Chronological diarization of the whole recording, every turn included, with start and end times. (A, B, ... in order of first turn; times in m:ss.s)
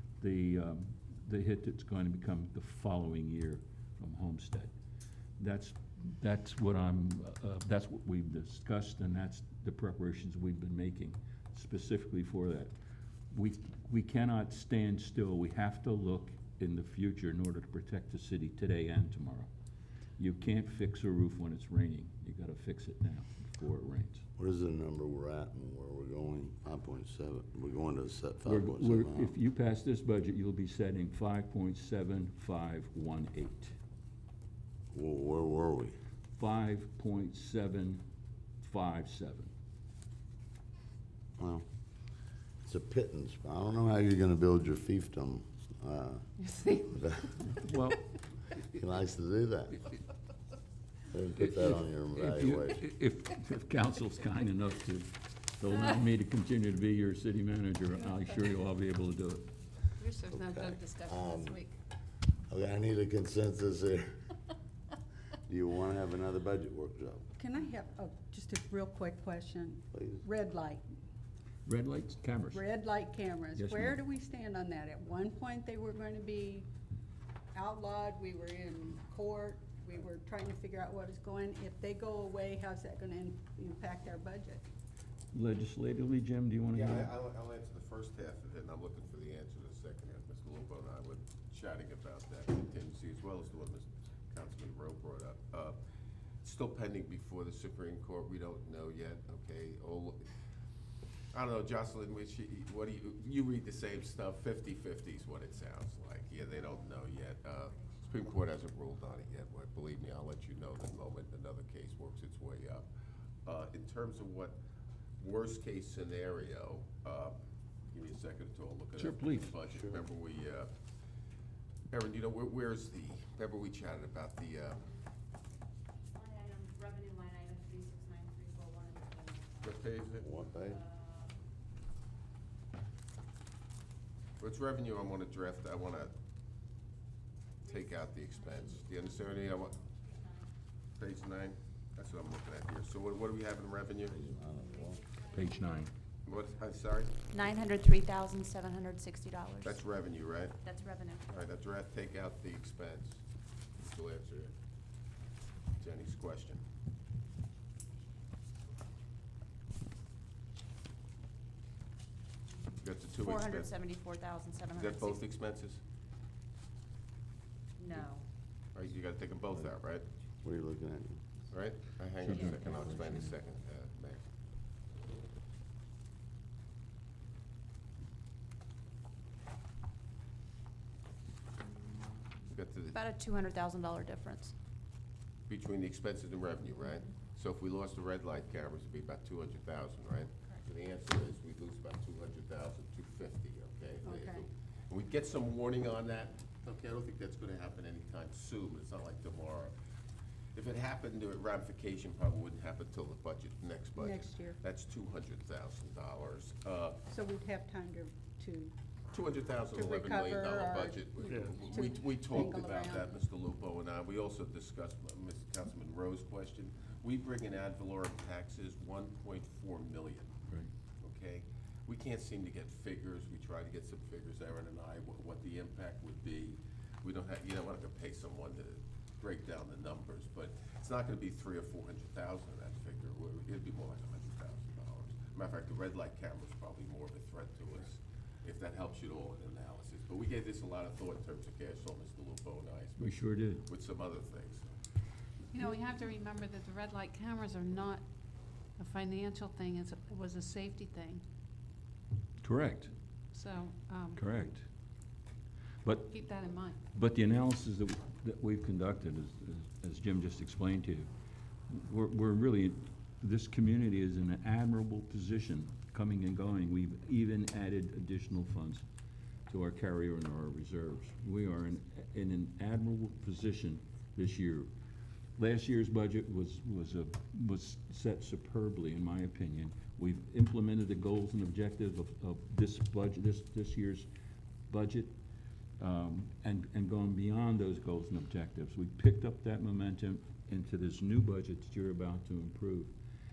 0:00.2-0:04.7 A
0:05.4-0:12.7 A
0:13.3-0:19.5 A
0:20.2-0:24.2 A
0:24.4-0:29.3 B
0:28.4-0:33.7 A
0:34.9-0:36.0 B
0:36.4-0:38.0 A
0:38.6-0:39.5 A
0:41.4-0:41.6 B
0:42.6-0:46.2 B
0:46.5-0:46.9 C
0:46.8-0:47.4 B
0:47.6-0:48.1 A
0:48.7-0:49.8 B
0:51.1-0:52.8 B
0:51.4-0:59.5 A
1:00.0-1:01.7 C
1:00.3-1:01.6 B
1:02.5-1:04.2 B
1:05.4-1:07.2 B
1:07.4-1:10.8 D
1:09.9-1:10.2 B
1:11.6-1:12.6 A
1:12.5-1:16.7 D
1:13.5-1:14.0 A
1:17.5-1:24.6 D
1:25.3-1:27.1 A
1:26.7-1:35.8 E
1:36.4-1:40.2 E
1:41.3-1:52.8 E
1:53.4-1:54.6 E
1:55.2-1:57.3 E
1:57.9-2:00.7 E
1:59.0-1:59.5 A
2:01.9-2:04.8 E
2:06.1-2:09.8 F
2:09.6-2:10.3 E
2:10.2-2:10.8 B
2:10.7-2:11.3 F
2:14.4-2:16.1 E
2:17.7-2:19.8 E
2:21.0-2:24.2 E
2:24.1-2:25.0 B
2:25.3-2:25.9 A
2:26.2-2:27.6 E
2:27.3-2:29.8 F
2:29.6-2:30.6 E
2:30.6-2:31.4 F
2:31.3-2:33.2 E
2:33.8-2:34.5 E
2:35.8-2:36.6 E
2:42.8-2:43.8 E
2:43.2-2:45.2 F
2:44.7-2:45.8 E
2:47.8-2:48.2 F
2:48.7-2:50.1 E
2:50.4-2:51.2 B
2:51.5-2:54.3 E
2:52.2-2:53.3 A
3:02.5-3:03.0 E
3:02.9-3:04.5 F
3:05.5-3:19.7 E
3:14.0-3:14.4 D
3:20.5-3:27.0 E
3:23.9-3:24.6 D
3:27.1-3:28.7 D
3:29.1-3:40.3 E
3:29.7-3:33.2 D
3:41.0-4:03.0 E
4:03.0-4:03.6 A
4:03.6-4:04.6 E
4:05.5-4:08.0 C
4:08.8-4:11.2 C
4:12.4-4:12.9 A
4:13.3-4:14.4 C
4:14.1-4:14.6 A
4:15.8-4:21.1 A
4:15.9-4:16.8 C
4:21.7-4:28.8 A
4:29.5-4:34.7 A
4:35.4-4:44.1 A
4:44.7-4:45.1 A
4:45.8-4:52.9 A